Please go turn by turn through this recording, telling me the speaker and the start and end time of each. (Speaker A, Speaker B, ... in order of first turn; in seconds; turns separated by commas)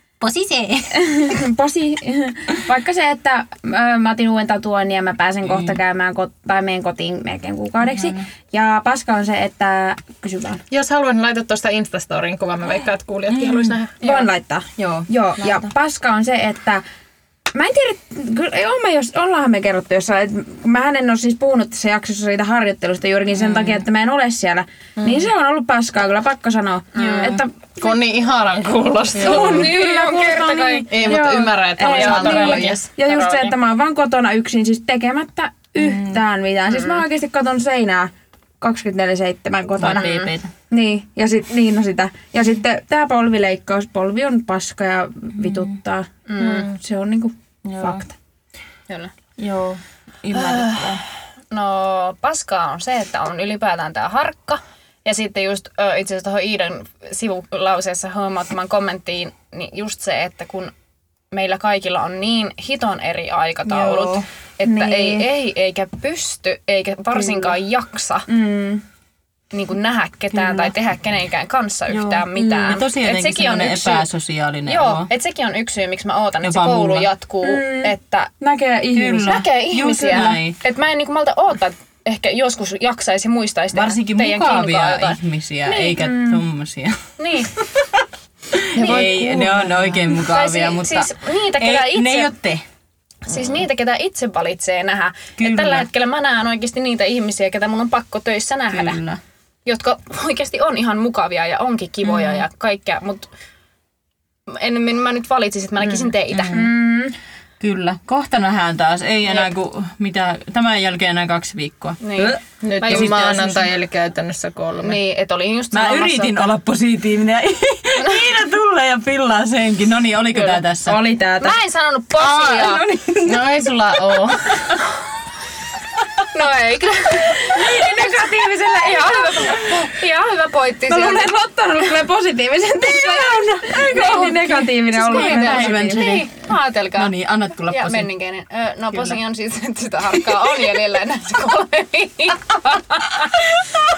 Speaker A: 0.2-1.2, Speaker B: 0.9-10.6, Speaker A: 5.5-5.8, Speaker C: 10.7-13.9, Speaker A: 13.3-13.8, Speaker B: 14.0-16.8, Speaker A: 14.8-15.6, Speaker B: 17.5-27.7, Speaker A: 23.4-23.8, Speaker C: 25.0-25.3, Speaker D: 26.9-27.4, Speaker A: 27.0-27.4, Speaker C: 27.8-29.8, Speaker A: 29.2-29.7, Speaker D: 29.2-31.1, Speaker B: 29.2-40.1, Speaker C: 30.9-32.8, Speaker D: 31.8-33.5, Speaker A: 35.9-36.1, Speaker D: 36.7-37.0, Speaker A: 39.8-40.5, Speaker D: 39.8-40.3, Speaker B: 40.7-48.1, Speaker D: 46.3-46.7, Speaker A: 47.7-48.1, Speaker A: 49.4-51.0, Speaker D: 51.5-60.7, Speaker D: 61.3-68.3, Speaker A: 63.7-64.2, Speaker B: 64.6-65.3, Speaker B: 68.3-68.8, Speaker D: 69.5-74.1, Speaker B: 70.4-70.7, Speaker A: 71.9-75.1, Speaker D: 74.7-78.3, Speaker A: 76.4-77.1, Speaker B: 77.4-80.4, Speaker A: 78.9-80.6, Speaker D: 79.2-85.2, Speaker A: 83.7-92.6, Speaker B: 85.7-86.4, Speaker D: 87.2-87.7, Speaker B: 88.8-90.0, Speaker D: 90.1-92.3, Speaker D: 93.3-99.0, Speaker A: 95.4-95.9, Speaker A: 98.7-99.2, Speaker D: 99.7-103.3, Speaker A: 102.0-102.4, Speaker D: 104.5-106.7, Speaker A: 106.3-106.8, Speaker B: 106.5-107.2, Speaker A: 107.6-113.5, Speaker D: 112.0-113.7, Speaker C: 112.6-115.0, Speaker D: 114.8-116.5, Speaker A: 115.7-121.0, Speaker D: 118.0-118.3, Speaker B: 120.4-121.6, Speaker D: 121.4-122.9, Speaker C: 122.4-124.8, Speaker B: 122.5-123.5, Speaker D: 126.3-131.3, Speaker B: 127.4-129.9, Speaker B: 130.9-136.1, Speaker A: 133.2-138.1, Speaker D: 133.9-134.3, Speaker D: 134.9-143.6, Speaker A: 138.9-139.2